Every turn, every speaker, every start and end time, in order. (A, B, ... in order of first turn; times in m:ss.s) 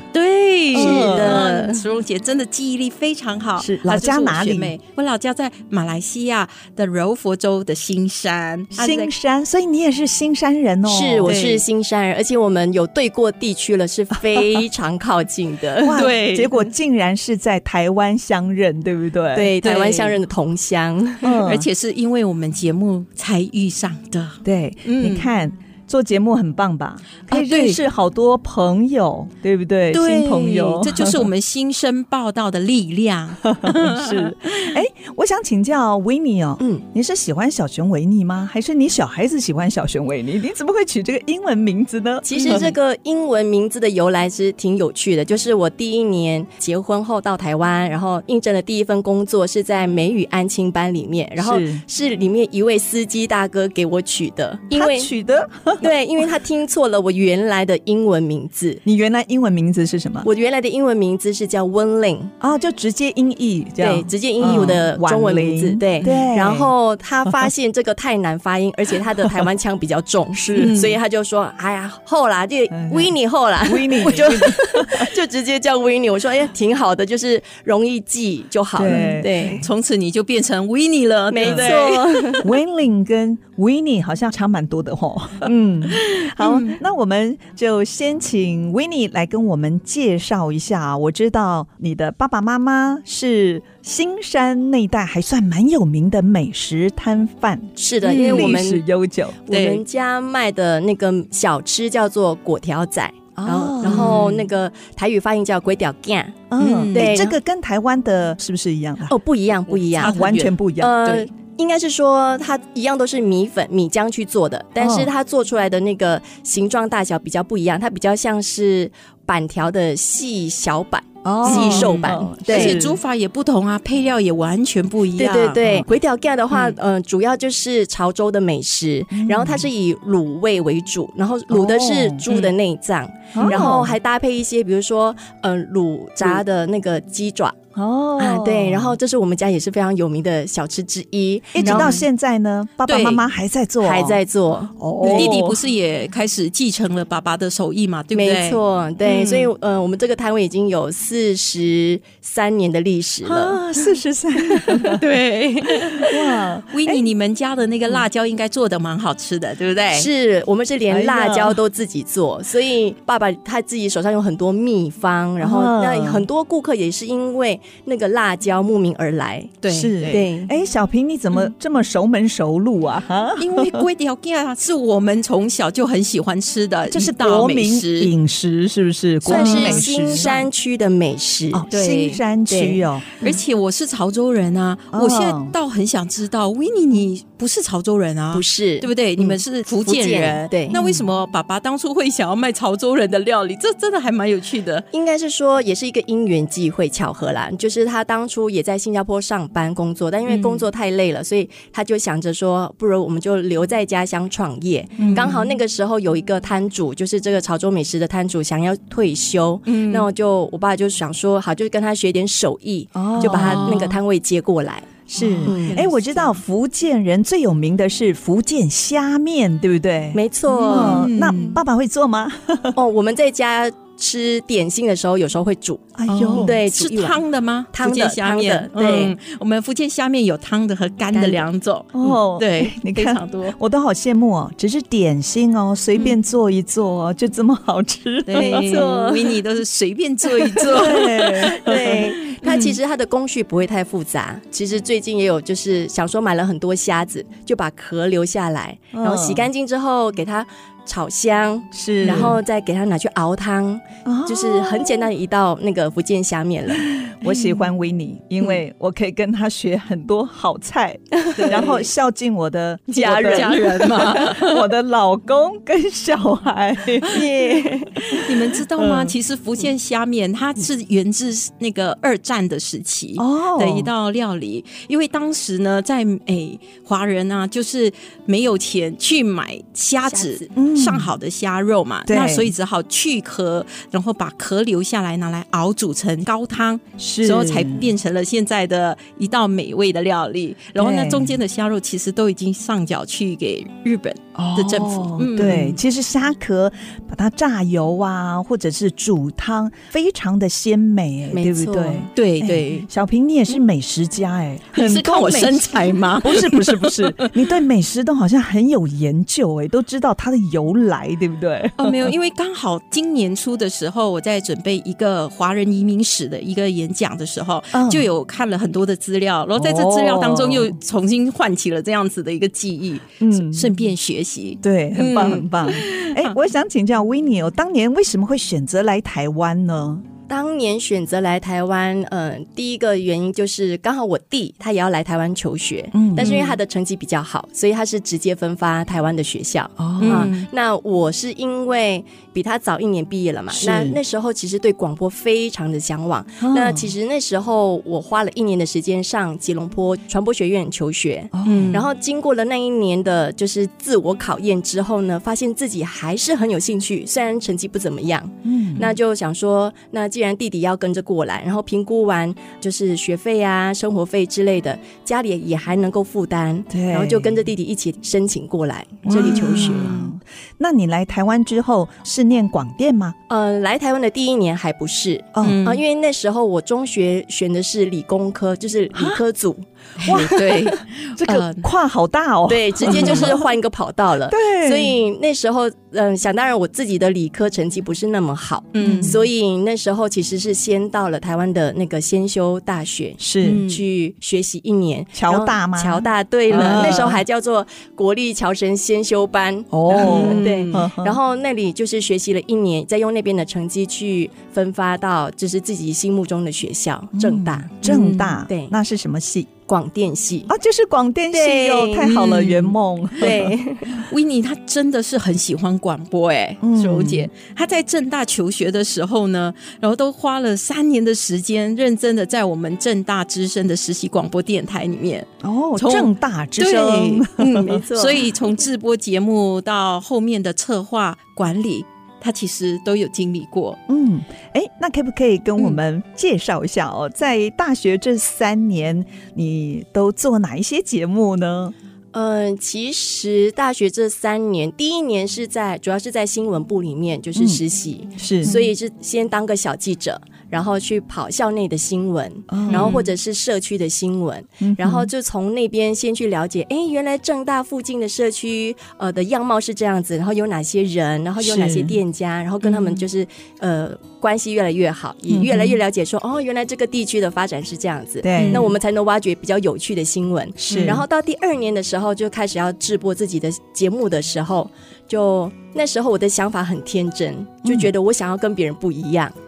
0:00.1-0:09.1 A
0:00.7-0:01.4 B
0:00.7-0:01.8 C
0:03.6-0:04.7 B
0:08.7-0:11.4 B
0:10.8-0:16.1 C
0:11.2-0:11.6 A
0:15.8-0:19.5 B
0:15.9-0:16.6 A
0:19.3-0:21.3 C
0:19.6-0:20.2 A
0:21.2-0:21.7 B
0:21.4-0:25.3 A
0:24.4-0:31.3 B
0:27.3-0:27.8 A
0:29.9-0:34.8 A
0:33.5-0:42.7 B
0:36.6-0:36.8 C
0:42.2-0:55.1 C
0:42.3-0:42.8 A
0:51.4-0:51.8 B
0:54.7-0:55.9 B
0:55.8-0:58.8 C
0:58.8-1:00.3 B
1:00.2-1:02.3 C
1:02.4-1:06.7 B
1:03.8-1:19.6 C
1:04.4-1:04.7 A
1:10.3-1:10.8 B
1:10.5-1:10.9 A
1:12.7-1:13.1 B
1:13.6-1:15.1 B
1:18.7-1:19.6 B
1:18.9-1:22.3 A
1:21.3-1:22.5 C
1:21.4-1:39.4 B
1:26.4-1:26.8 A
1:37.8-1:38.8 C
1:38.0-1:38.6 A
1:39.5-1:47.3 C
1:39.5-1:39.8 A
1:43.4-1:44.3 B
1:43.8-1:44.4 A
1:46.5-1:49.1 B
1:46.6-1:47.3 A
1:49.1-2:02.8 C
1:49.9-1:51.0 B
1:50.0-1:50.5 A
1:54.8-1:55.1 B
2:01.2-2:03.0 B
2:01.4-2:05.6 A
2:05.2-2:17.6 C
2:06.5-2:06.8 A
2:09.1-2:09.7 B
2:11.5-2:12.2 B
2:12.3-2:12.5 A
2:13.3-2:13.9 B
2:13.4-2:13.7 A
2:17.7-2:19.0 B
2:18.2-2:22.0 C
2:21.5-2:24.2 B
2:21.6-2:22.0 A
2:22.8-2:23.2 A
2:23.8-2:25.4 C
2:24.8-2:25.6 B
2:25.0-2:29.5 A
2:28.1-2:33.6 C
2:33.2-2:35.0 B
2:34.9-2:36.1 A
2:36.0-2:37.0 B
2:36.7-2:40.1 A
2:39.9-2:50.5 C
2:40.9-2:41.6 B
2:45.4-2:46.3 B
2:49.6-2:50.1 A
2:49.7-2:53.8 B
2:53.4-2:58.1 A
2:56.9-3:00.3 B
2:59.2-3:00.4 A
2:59.2-3:03.4 C
3:01.5-3:03.1 B
3:01.7-3:02.0 A
3:03.2-3:14.8 A
3:04.9-3:05.5 B
3:08.3-3:10.7 C
3:10.7-3:11.1 B
3:14.9-3:34.9 C
3:20.3-3:20.6 A
3:25.0-3:25.3 B
3:25.0-3:25.5 A
3:29.7-3:30.1 A
3:32.9-3:33.8 B
3:33.2-3:34.0 A
3:35.1-3:42.8 B
3:35.2-3:36.1 A
3:35.4-3:35.8 C
3:40.1-3:41.1 C
3:40.5-3:41.6 A
3:42.7-3:47.2 C
3:46.0-3:46.5 B
3:46.1-3:53.6 A
3:47.7-3:49.1 C
3:51.1-3:51.4 C
3:51.9-3:59.0 B
3:58.2-4:02.7 A
3:58.4-3:59.3 C
4:00.5-4:16.9 C
4:00.6-4:02.2 B
4:08.9-4:09.5 B
4:11.7-4:12.4 B
4:12.0-4:12.4 A
4:14.0-4:15.1 B
4:16.8-4:27.3 B
4:21.2-4:21.8 C
4:21.4-4:21.7 A
4:22.9-4:24.1 C
4:22.9-4:24.7 A
4:27.1-4:28.0 C
4:28.1-4:55.8 A
4:28.8-4:29.1 B
4:33.2-4:33.9 B
4:40.1-4:40.5 C
4:40.6-4:41.1 B
4:42.0-4:42.5 B
4:47.0-4:47.9 B
4:50.8-4:51.4 B
4:54.3-5:12.1 B
5:01.3-5:02.1 C
5:02.1-5:02.8 A
5:04.7-5:07.4 A
5:11.8-5:26.4 A
5:17.7-5:18.1 B
5:19.6-5:20.7 B
5:23.2-5:23.7 B
5:24.6-5:30.0 B
5:30.3-6:09.9 C
5:35.9-5:36.3 B
5:36.2-5:36.6 A
5:39.8-5:40.3 B
5:40.0-5:40.5 A
5:43.5-5:44.0 B
5:46.4-5:46.9 B
5:51.3-5:51.8 B
5:51.4-5:51.8 A
5:58.4-5:58.9 B
6:06.7-6:07.4 B
6:09.0-6:13.2 B
6:09.1-6:10.1 A
6:13.3-6:20.5 C
6:15.3-6:15.6 B
6:15.4-6:15.8 A
6:18.9-6:19.2 B
6:20.0-6:21.7 A
6:20.0-6:23.4 B
6:22.5-6:47.7 C
6:22.9-6:23.3 A
6:24.3-6:25.0 B
6:28.7-6:29.2 A
6:28.8-6:29.2 B
6:33.2-6:33.6 B
6:33.4-6:33.8 A
6:35.1-6:37.2 B
6:36.5-6:37.1 A
6:39.7-6:41.2 B
6:39.9-6:40.8 A
6:47.1-6:49.5 B
6:47.8-6:48.4 A
6:48.5-6:48.7 C
6:49.7-6:50.5 C
6:50.5-6:53.5 B
6:51.3-6:52.2 C
6:52.0-6:52.8 A
6:53.2-6:54.0 C
6:53.9-7:13.8 A
6:56.6-6:57.3 B
7:05.4-7:07.8 B
7:07.5-7:08.2 C
7:13.9-7:21.7 B
7:22.1-7:59.3 C
7:27.3-7:27.6 B
7:28.2-7:28.5 B
7:28.4-7:28.7 A
7:32.5-7:33.0 B
7:32.7-7:33.1 A
7:34.6-7:35.1 B
7:41.4-7:42.0 B
7:42.6-7:43.0 A
7:45.3-7:45.7 B
7:48.2-7:48.7 B
7:48.3-7:48.7 A
7:50.6-7:51.0 B
7:50.7-7:51.0 A
7:57.6-7:57.9 B